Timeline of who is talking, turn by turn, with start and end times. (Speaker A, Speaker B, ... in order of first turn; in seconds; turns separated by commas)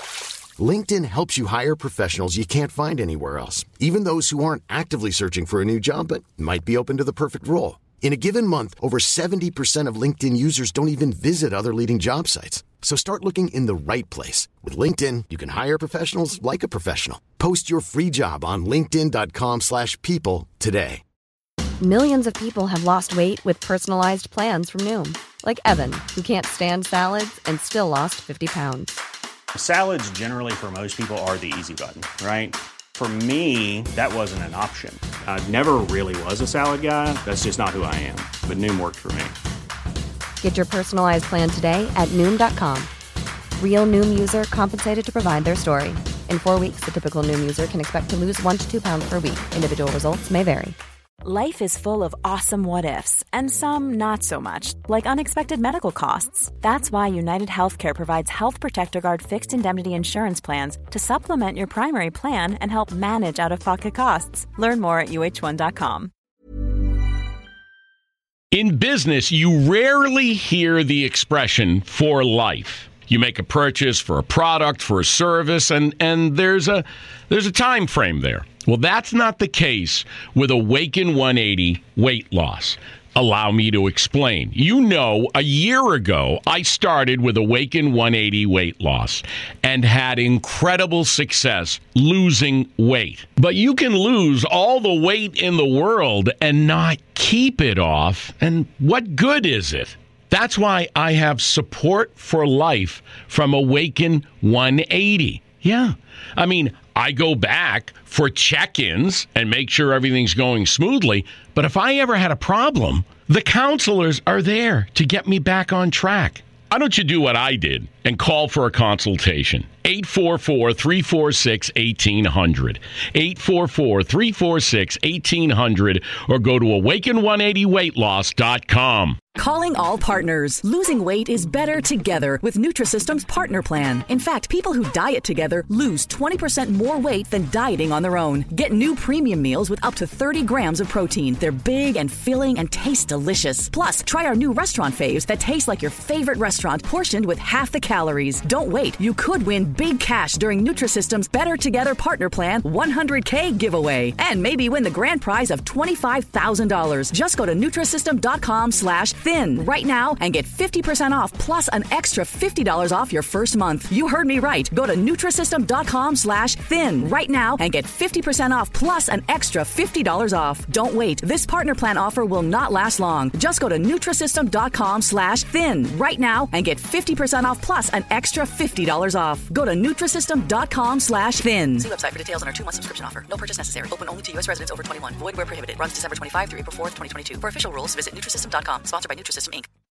Speaker A: 0.6-21.0, Speaker B: 21.8-29.0, Speaker C: 29.5-39.3, Speaker B: 40.4-42.9, Speaker B: 43.6-50.8, Speaker D: 51.2-66.1, Speaker E: 68.5-129.2, Speaker F: 129.3-181.9, Speaker G: 181.8-189.7